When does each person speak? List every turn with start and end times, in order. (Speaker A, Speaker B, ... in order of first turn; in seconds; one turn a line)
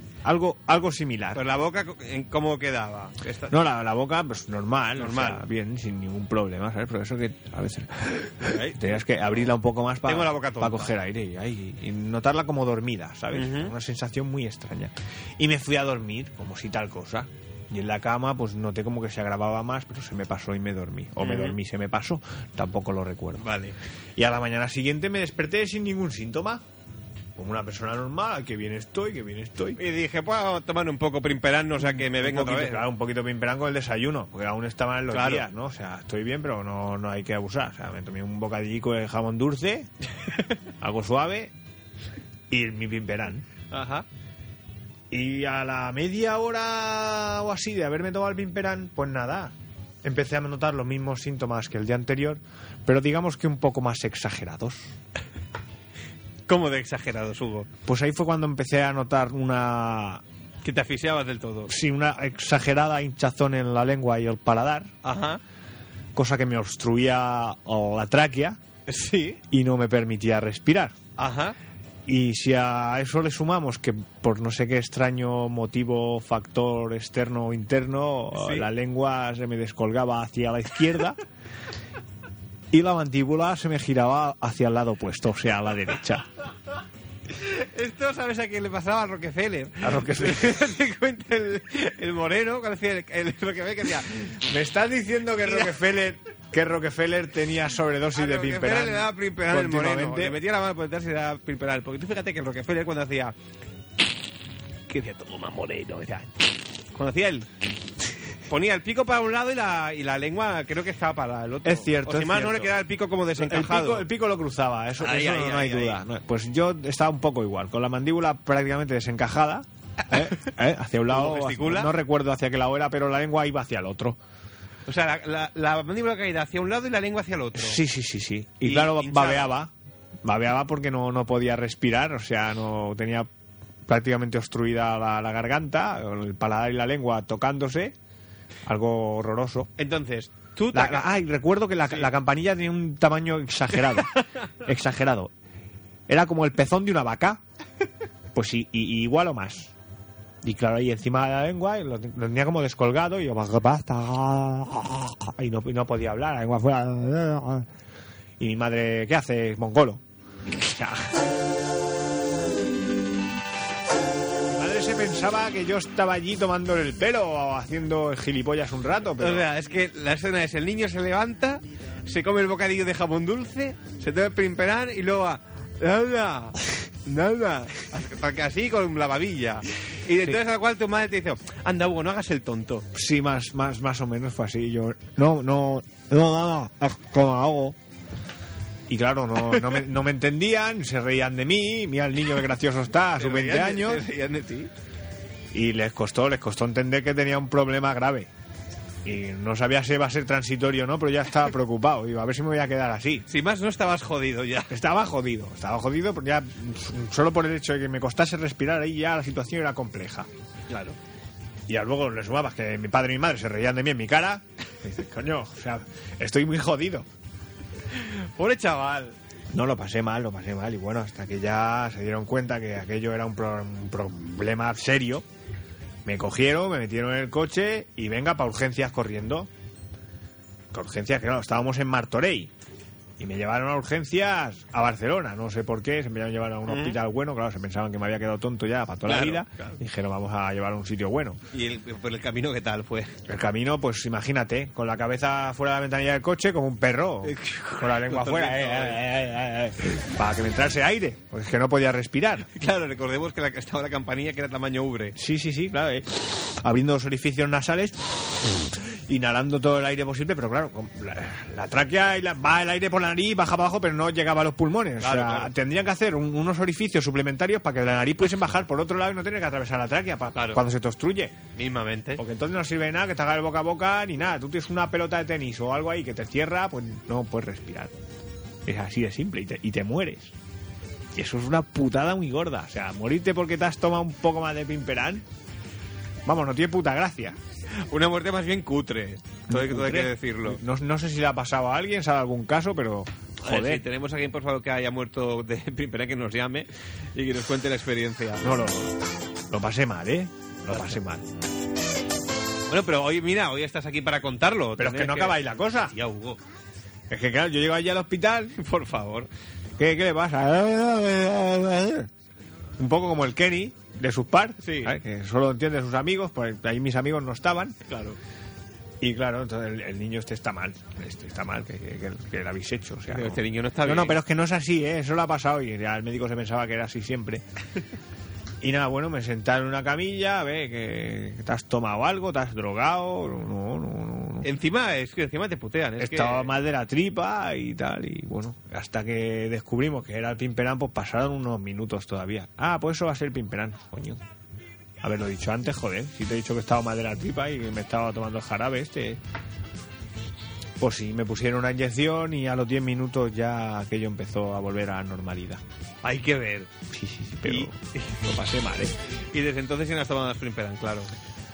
Speaker A: 0.2-1.4
Speaker B: 1.4-3.5
Speaker A: 3.5-23.5
Speaker B: 5.0-5.4
Speaker B: 8.4-9.5
Speaker B: 10.1-10.9
Speaker B: 13.3-13.7
Speaker B: 21.2-21.6
Speaker B: 23.4-23.8
Speaker A: 24.2-26.6
Speaker A: 27.4-29.8
Speaker B: 29.8-32.9
Speaker A: 31.8-39.9
Speaker B: 35.1-35.5
Speaker A: 40.8-41.5
Speaker A: 42.5-43.5
Speaker B: 43.7-44.1
Speaker A: 45.1-54.9
Speaker B: 56.5-57.7
Speaker A: 57.9-60.2
Speaker B: 60.6-61.7
Speaker A: 61.7-64.9
Speaker B: 65.0-65.4
Speaker A: 66.2-68.6
Speaker B: 68.9-69.4
Speaker A: 69.5-71.0
Speaker B: 71.2-71.6
Speaker A: 72.1-81.2
Speaker B: 78.3-78.7
Speaker A: 82.7-86.3
Speaker B: 87.4-94.4
Speaker A: 89.8-90.6
Speaker A: 94.4-100.4
Speaker B: 95.4-95.7
Speaker B: 98.1-103.3
Speaker B: 104.9-106.3
Speaker B: 106.9-107.5
Speaker B: 108.5-114.1
Speaker A: 111.6-112.8
Speaker A: 113.3-124.2
Speaker B: 115.0-116.0
Speaker B: 120.1-120.4
Speaker B: 121.1-121.9
Speaker B: 124.9-127.8
Speaker A: 127.5-129.7
Speaker B: 128.7-129.5
Speaker A: 130.2-133.3
Speaker A: 133.9-137.9
Speaker A: 138.7-139.7
Speaker B: 139.8-141.1
Speaker A: 140.7-145.3
Speaker A: 146.1-147.4
Speaker A: 148.3-149.7
Speaker A: 150.4-157.7
Speaker A: 158.4-160.0
Speaker A: 160.6-161.2
Speaker A: 164.5-169.5
Speaker B: 169.2-182.9
Speaker A: 182.9-187.8
Speaker A: 188.9-194.0
Speaker B: 193.2-194.7
Speaker A: 195.5-198.3
Speaker A: 199.1-203.3
Speaker B: 203.3-204.7
Speaker A: 204.7-210.3
Speaker B: 210.7-211.0
Speaker A: 211.7-217.1
Speaker B: 218.0-219.2
Speaker A: 219.5-225.2
Speaker A: 226.1-229.5
Speaker A: 230.7-232.5
Speaker A: 233.2-241.4
Speaker B: 236.7-237.0
Speaker B: 239.1-239.8
Speaker B: 241.5-243.2
Speaker A: 243.3-252.5
Speaker B: 247.2-249.1
Speaker B: 252.6-255.2
Speaker A: 255.2-258.0
Speaker A: 258.7-271.4
Speaker B: 265.0-265.5
Speaker B: 270.3-270.6
Speaker B: 271.6-272.2
Speaker A: 272.2-277.9
Speaker A: 278.6-280.4
Speaker A: 281.1-285.2
Speaker A: 286.3-287.4
Speaker B: 287.9-290.6
Speaker A: 289.5-293.8
Speaker B: 293.4-298.7
Speaker A: 298.4-298.9
Speaker A: 299.5-301.3
Speaker B: 300.7-301.0
Speaker B: 302.7-306.4
Speaker A: 304.8-305.9
Speaker A: 307.1-308.6
Speaker B: 308.6-309.3
Speaker A: 309.8-312.1
Speaker A: 312.8-317.8
Speaker B: 314.6-315.0
Speaker B: 317.9-318.2
Speaker A: 319.0-327.4
Speaker B: 323.1-324.2
Speaker A: 328.6-334.5
Speaker B: 334.4-336.6
Speaker A: 336.0-344.2
Speaker A: 345.0-349.2
Speaker A: 350.8-355.6
Speaker B: 356.0-356.7
Speaker A: 356.9-358.9
Speaker B: 357.4-358.1
Speaker B: 359.3-361.1